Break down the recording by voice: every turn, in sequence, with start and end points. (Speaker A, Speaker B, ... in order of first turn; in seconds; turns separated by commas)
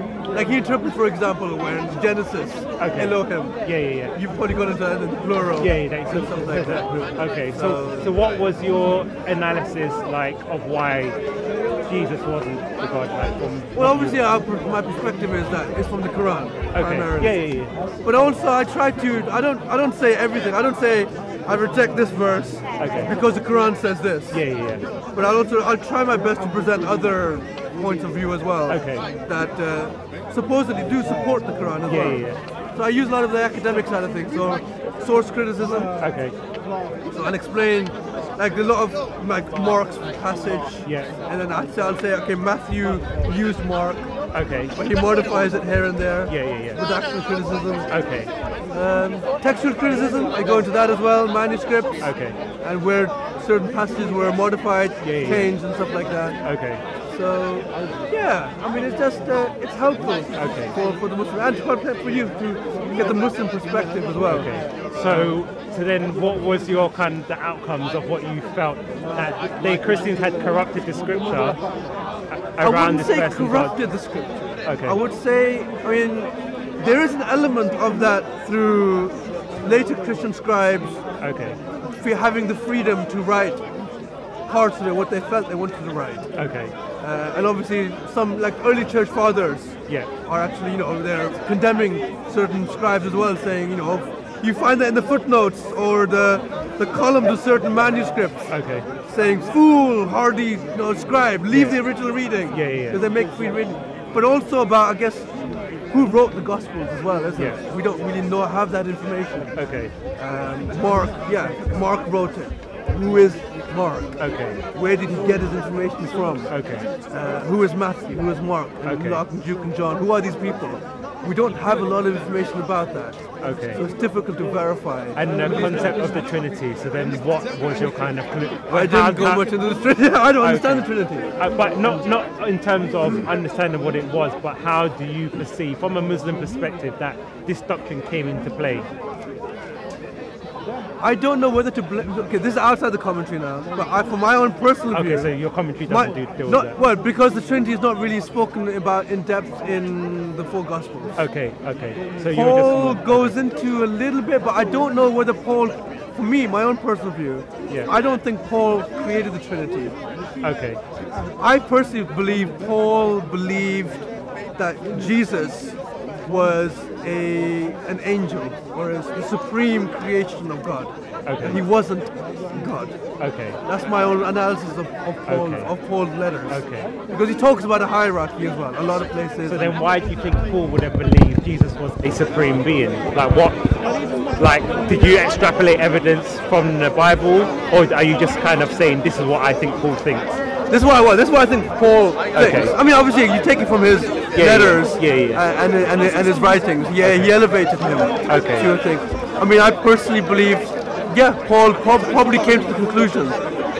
Speaker A: 0.3-8.2, Speaker B: 2.8-4.2, Speaker B: 5.6-11.2, Speaker B: 11.9-14.2, Speaker A: 13.7-17.5, Speaker B: 16.7-17.7, Speaker A: 18.0-24.4, Speaker B: 22.8-23.1, Speaker B: 24.3-24.8, Speaker A: 25.1-35.9, Speaker B: 28.7-29.1, Speaker B: 31.9-32.4, Speaker B: 36.0-36.4, Speaker A: 37.1-44.1, Speaker B: 40.9-41.1, Speaker B: 44.3-44.7, Speaker A: 44.8-47.9, Speaker B: 46.3-46.8, Speaker B: 47.9-48.3, Speaker A: 48.7-52.1, Speaker B: 52.0-52.4, Speaker A: 52.6-56.4, Speaker B: 55.0-55.5, Speaker B: 56.4-56.8, Speaker A: 57.1-65.3, Speaker B: 60.4-60.8, Speaker B: 64.3-71.6, Speaker B: 72.3-73.8, Speaker A: 72.6-81.0, Speaker B: 74.7-75.0, Speaker B: 81.2-81.6, Speaker A: 81.9-83.6, Speaker A: 84.5-86.3, Speaker B: 86.3-86.8, Speaker A: 87.0-98.5, Speaker B: 98.5-98.9, Speaker A: 99.1-105.3, Speaker B: 101.5-101.8, Speaker B: 102.5-103.0, Speaker A: 105.9-114.2, Speaker B: 109.5-109.9, Speaker B: 114.2-114.6, Speaker A: 114.7-116.5, Speaker B: 116.5-116.9, Speaker A: 117.1-126.0, Speaker B: 118.8-119.2, Speaker B: 123.4-123.8, Speaker B: 125.2-129.5, Speaker A: 128.7-131.3, Speaker B: 130.4-138.9, Speaker A: 141.0-145.3, Speaker B: 144.9-146.8, Speaker A: 145.9-151.2, Speaker B: 151.2-153.3, Speaker A: 152.3-160.0, Speaker B: 160.4-160.8, Speaker A: 161.4-173.0, Speaker B: 171.3-171.6, Speaker B: 173.2-173.6, Speaker A: 173.7-179.8, Speaker B: 175.3-175.7, Speaker B: 176.5-176.9, Speaker B: 179.5-183.8, Speaker B: 184.4-190.4, Speaker A: 190.7-203.4, Speaker B: 192.3-192.7, Speaker B: 194.3-195.4, Speaker B: 197.0-197.3, Speaker B: 198.3-198.7